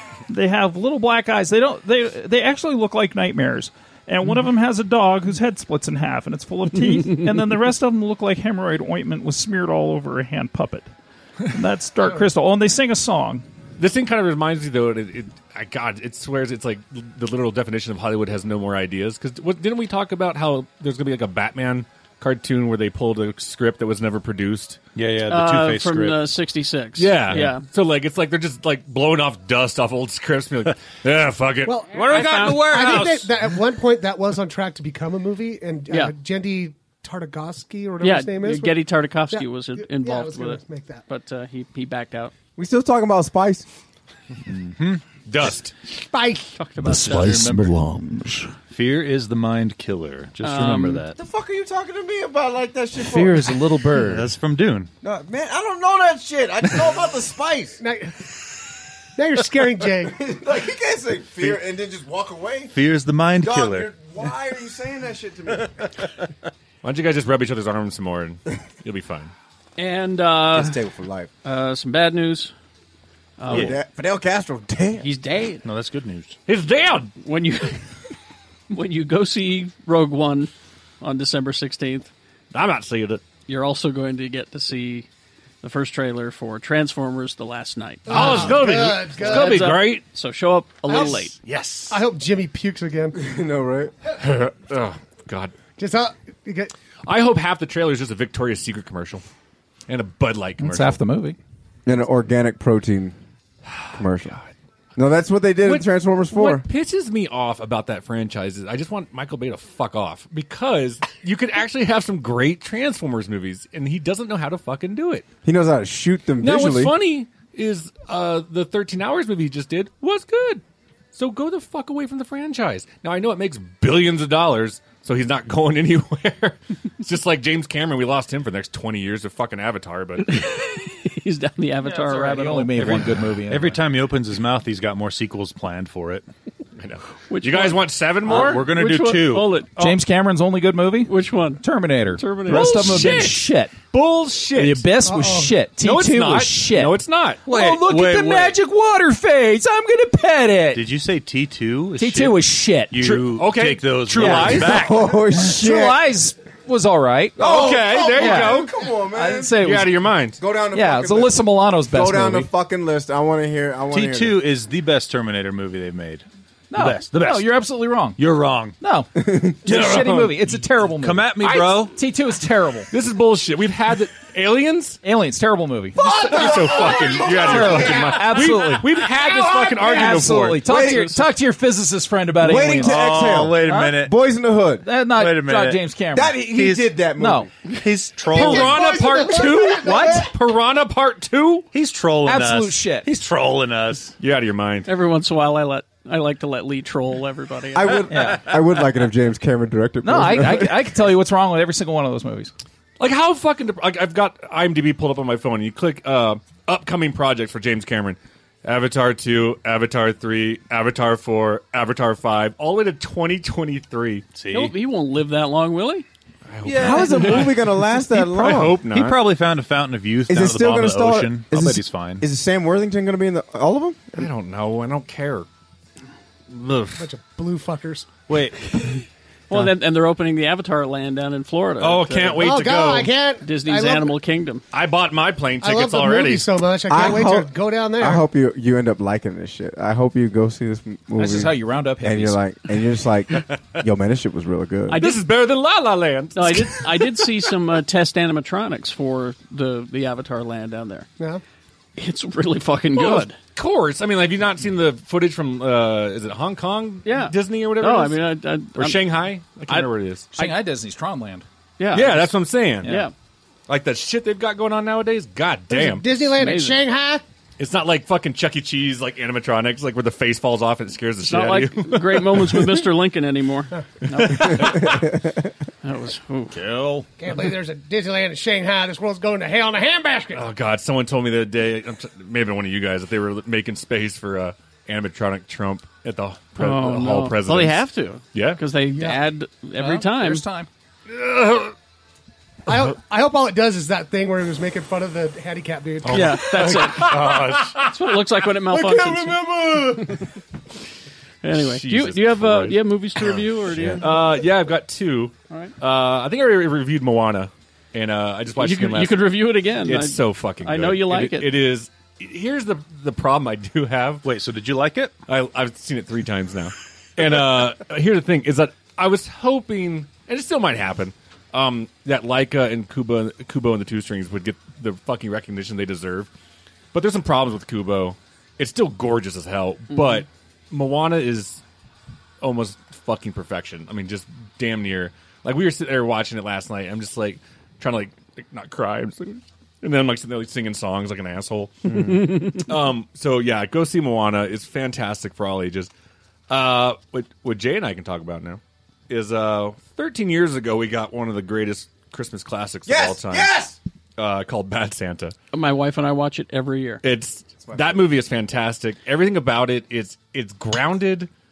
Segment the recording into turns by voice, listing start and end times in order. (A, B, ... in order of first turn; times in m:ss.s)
0:00.3-0:10.9 A
0:11.5-0:13.4 A
0:13.8-0:24.8 B
0:25.0-0:26.3 C
0:25.3-0:27.6 D
0:27.0-0:33.1 B
0:31.7-0:41.0 E
0:31.9-0:33.3 C
0:32.0-0:32.6 D
0:35.9-0:36.2 D
0:38.0-0:42.3 D
0:42.6-0:43.7 F
0:44.5-0:45.0 C
0:45.3-0:45.7 B
0:46.0-0:46.6 E
0:46.6-0:47.4 D
0:46.8-0:48.5 G
0:47.0-0:47.8 C
0:48.7-0:51.2 C
0:50.4-0:51.0 D
0:51.2-0:53.7 F
0:53.1-0:54.2 G
0:53.1-0:54.9 C
0:55.0-0:57.8 F
0:57.8-0:58.4 E
0:59.2-1:00.2 E
1:00.1-1:02.7 F
1:02.7-1:03.9 C
1:03.4-1:05.9 F
1:06.8-1:09.3 B
1:09.8-1:10.8 D
1:10.5-1:11.3 F
1:11.4-1:12.5 D
1:13.4-1:13.8 D
1:13.5-1:15.1 F
1:13.5-1:13.8 C
1:15.0-1:15.6 D
1:15.6-1:16.4 C
1:16.5-1:17.1 B
1:17.2-1:17.9 D
1:18.7-1:22.1 D
1:22.5-1:23.2 B
1:23.5-1:25.1 D
1:25.6-1:31.4 D
1:28.1-1:29.7 E
1:28.1-1:30.0 B
1:30.9-1:31.3 E
1:31.5-1:32.0 B
1:31.9-1:33.2 E
1:33.2-1:33.9 F
1:34.2-1:35.6 B
1:35.8-1:36.7 E
1:37.1-1:39.2 B
1:39.9-1:41.0 B
1:40.6-1:41.4 G
1:41.9-1:43.2 F
1:43.8-1:44.4 B
1:43.9-1:44.4 F
1:45.0-1:46.6 F
1:45.6-1:55.3 B
1:55.4-1:56.9 F
1:56.4-2:00.6 B
2:01.1-2:10.4 B
2:10.2-2:12.9 D
2:11.9-2:13.8 G
2:12.8-2:16.2 C
2:16.8-2:18.7 B
2:17.3-2:19.9 D
2:18.2-2:19.6 C
2:19.8-2:23.9 G
2:21.1-2:21.6 D
2:22.2-2:22.9 D
2:22.2-2:24.9 B
2:24.5-2:30.9 G
2:25.0-2:25.7 E
2:25.8-2:27.4 B
2:27.5-2:28.6 C
2:30.7-2:35.1 C
2:32.0-2:33.1 G
2:33.0-2:34.9 B
2:34.2-2:40.1 G
2:34.6-2:36.0 F
2:37.4-2:38.8 B
2:37.4-2:39.5 F
2:39.6-2:40.4 B
2:40.4-2:44.4 F
2:40.7-2:42.5 G
2:43.9-2:47.6 C
2:46.7-2:48.2 G
2:48.2-2:48.8 C
2:48.8-2:52.9 G
2:49.3-2:49.5 F
2:49.7-2:52.0 C
2:52.9-2:55.0 B
2:55.0-2:56.1 G
2:56.0-3:00.9 B
2:56.1-2:58.0 F
2:56.2-2:58.1 E
2:57.3-2:59.1 G
2:59.2-3:00.0 E
2:59.8-3:04.0 G
3:00.6-3:01.1 F
3:02.4-3:04.9 F
3:02.7-3:04.2 C
3:04.8-3:06.4 G
3:05.2-3:05.8 C
3:06.1-3:07.5 F
3:06.4-3:07.0 C
3:07.2-3:07.5 G
3:07.6-3:08.9 C
3:08.2-3:11.7 B
3:08.4-3:10.2 E
3:11.7-3:14.2 C
3:12.2-3:13.1 G
3:14.2-3:14.9 B
3:14.9-3:18.1 D
3:17.7-3:20.9 F
3:18.1-3:18.5 G
3:20.0-3:22.5 G
3:23.0-3:34.3 B
3:34.4-3:34.7 C
3:34.5-3:36.1 D
3:36.5-3:39.2 B
3:36.6-3:38.8 F
3:36.9-3:37.4 D
3:38.9-3:42.2 C
3:40.3-3:44.3 F
3:44.2-3:45.5 B
3:46.5-3:47.0 B
3:47.0-3:48.1 E
3:48.3-3:48.6 C
3:49.5-3:52.5 D
3:51.8-3:53.1 B
3:52.4-3:54.2 E
3:53.4-3:54.6 D
3:54.7-3:56.5 B
3:55.6-3:58.2 E
3:56.9-4:05.0 F
4:01.2-4:02.4 G
4:04.9-4:05.2 D
4:04.9-4:07.3 B
4:06.4-4:11.1 D
4:12.0-4:13.4 D
4:12.9-4:20.5 B
4:17.0-4:19.0 D
4:19.7-4:21.5 G
4:21.8-4:23.1 D
4:21.9-4:23.0 B
4:22.8-4:23.1 G
4:23.7-4:26.3 B
4:25.7-4:27.2 E
4:26.4-4:26.8 D
4:27.6-4:32.8 B
4:31.2-4:35.0 D
4:34.1-4:35.1 B
4:35.8-4:36.6 D
4:37.2-4:40.5 E
4:40.3-4:48.6 B
4:46.6-4:50.4 D
4:49.8-4:50.7 G
4:51.1-4:51.7 B
4:52.7-4:56.8 E
4:56.0-4:57.9 B
4:56.1-4:57.2 D
4:56.8-4:57.8 C
4:57.8-5:00.3 D
4:58.7-5:00.0 E
4:59.8-5:00.0 B
5:01.4-5:04.2 D
5:01.6-5:03.4 B
5:04.0-5:14.3 B
5:08.6-5:11.6 D
5:14.2-5:15.2 C
5:15.3-5:26.3 B
5:26.9-5:31.6 B
5:32.4-5:45.9 B
5:41.9-5:42.3 F
5:42.2-5:42.6 D
5:46.5-5:53.6 B
5:52.9-5:53.8 F
5:54.2-5:55.4 B
5:55.5-5:57.0 D
5:57.0-6:01.3 B
5:57.6-5:58.1 F